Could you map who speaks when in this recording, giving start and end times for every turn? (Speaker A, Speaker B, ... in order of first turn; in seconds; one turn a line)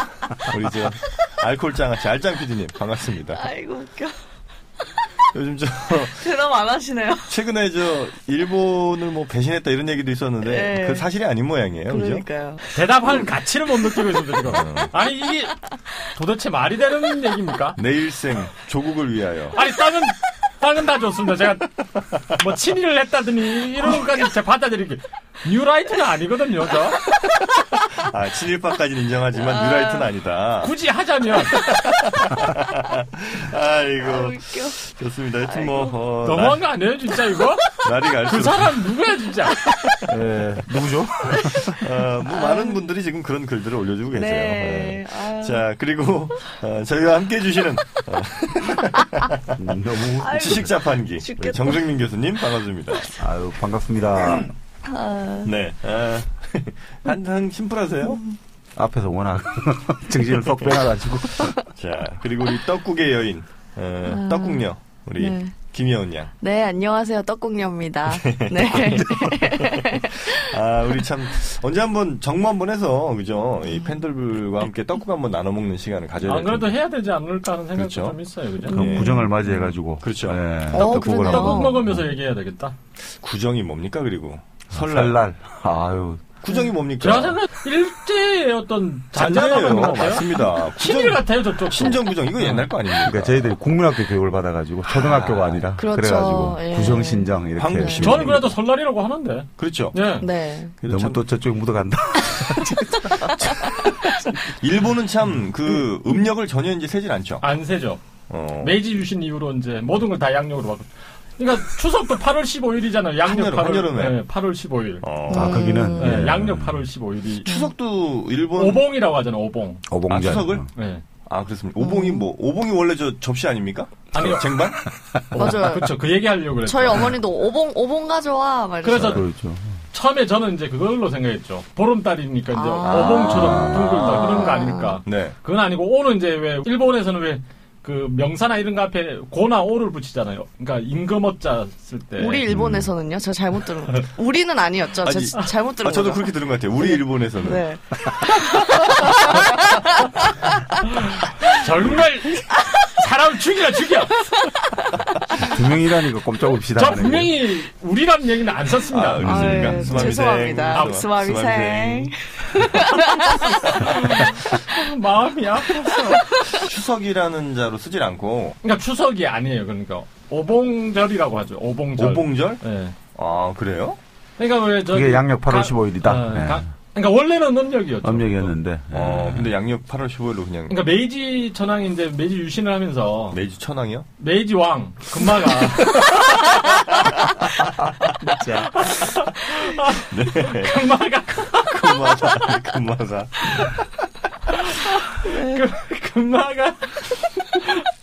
Speaker A: 0.4-3.5
Speaker B: 3.4-4.2
Speaker A: 5.3-6.3
Speaker B: 6.2-7.3
Speaker A: 7.3-12.2
Speaker B: 10.4-11.1
Speaker B: 11.9-12.6
Speaker C: 12.7-17.8
Speaker A: 14.5-14.9
Speaker A: 17.8-19.6
Speaker C: 19.5-27.1
Speaker A: 27.9-30.7
Speaker B: 29.5-30.1
Speaker C: 30.6-31.7
Speaker A: 31.5-36.6
Speaker B: 34.0-34.8
Speaker B: 35.5-36.0
Speaker C: 36.2-39.6
Speaker A: 37.8-38.9
Speaker A: 39.7-40.1
Speaker D: 40.1-41.8
Speaker B: 41.4-41.7
Speaker A: 41.7-49.6
Speaker B: 42.2-42.8
Speaker B: 44.1-45.6
Speaker D: 49.6-50.7
Speaker B: 50.2-51.8
Speaker A: 50.2-53.2
Speaker D: 53.2-54.5
Speaker A: 54.2-54.5
Speaker B: 54.9-55.5
Speaker A: 55.4-58.2
Speaker D: 58.8-61.6
Speaker A: 61.6-66.3
Speaker B: 64.1-64.7
Speaker B: 65.2-65.5
Speaker B: 66.4-70.6
Speaker A: 68.1-76.7
Speaker C: 76.2-79.1
Speaker A: 77.8-81.3
Speaker B: 78.7-79.1
Speaker D: 78.7-82.0
Speaker B: 80.7-81.8
Speaker C: 80.7-82.8
Speaker A: 83.2-85.2
Speaker D: 84.7-86.3
Speaker A: 86.4-87.4
Speaker C: 87.0-92.7
Speaker A: 89.1-93.5
Speaker D: 93.0-98.5
Speaker A: 94.9-95.6
Speaker B: 95.8-98.0
Speaker A: 97.6-98.4
Speaker C: 98.0-100.3
Speaker A: 99.6-100.0
Speaker B: 100.2-100.8
Speaker A: 100.8-101.2
Speaker D: 100.9-103.8
Speaker A: 103.3-103.9
Speaker A: 104.4-107.5
Speaker C: 107.4-108.0
Speaker A: 108.3-108.8
Speaker C: 108.6-115.0
Speaker A: 113.2-114.2
Speaker A: 115.0-115.9
Speaker B: 115.3-116.3
Speaker D: 115.3-116.8
Speaker C: 116.0-117.5
Speaker A: 117.5-118.8
Speaker C: 118.6-119.8
Speaker D: 119.9-120.7
Speaker A: 120.1-120.7
Speaker C: 120.8-121.0
Speaker A: 121.3-124.8
Speaker B: 121.8-122.2
Speaker C: 124.1-124.5
Speaker D: 124.8-125.3
Speaker C: 125.3-127.1
Speaker B: 125.3-126.0
Speaker B: 126.7-129.2
Speaker C: 128.8-129.2
Speaker D: 128.9-129.8
Speaker C: 129.9-142.4
Speaker B: 132.5-135.0
Speaker A: 132.8-135.3
Speaker D: 133.3-133.9
Speaker B: 142.2-150.5
Speaker D: 142.5-142.9
Speaker A: 145.0-147.7
Speaker A: 148.3-149.5
Speaker C: 150.8-154.3
Speaker D: 155.4-157.3
Speaker C: 156.8-160.0
Speaker A: 158.9-162.8
Speaker D: 159.2-160.2
Speaker B: 159.2-163.9
Speaker C: 160.7-161.0
Speaker C: 163.6-166.1
Speaker B: 165.9-166.6
Speaker A: 166.5-168.6
Speaker C: 168.6-173.0
Speaker A: 172.0-172.6
Speaker A: 173.2-174.0
Speaker C: 174.4-178.5
Speaker D: 174.9-176.7
Speaker D: 178.0-179.5
Speaker A: 178.9-180.8
Speaker C: 180.7-183.4
Speaker A: 183.3-184.1
Speaker C: 184.2-186.8
Speaker A: 185.9-186.2
Speaker D: 188.2-188.8
Speaker C: 188.8-192.0
Speaker A: 190.1-190.8
Speaker A: 191.5-193.8
Speaker C: 194.6-197.9
Speaker B: 195.2-195.6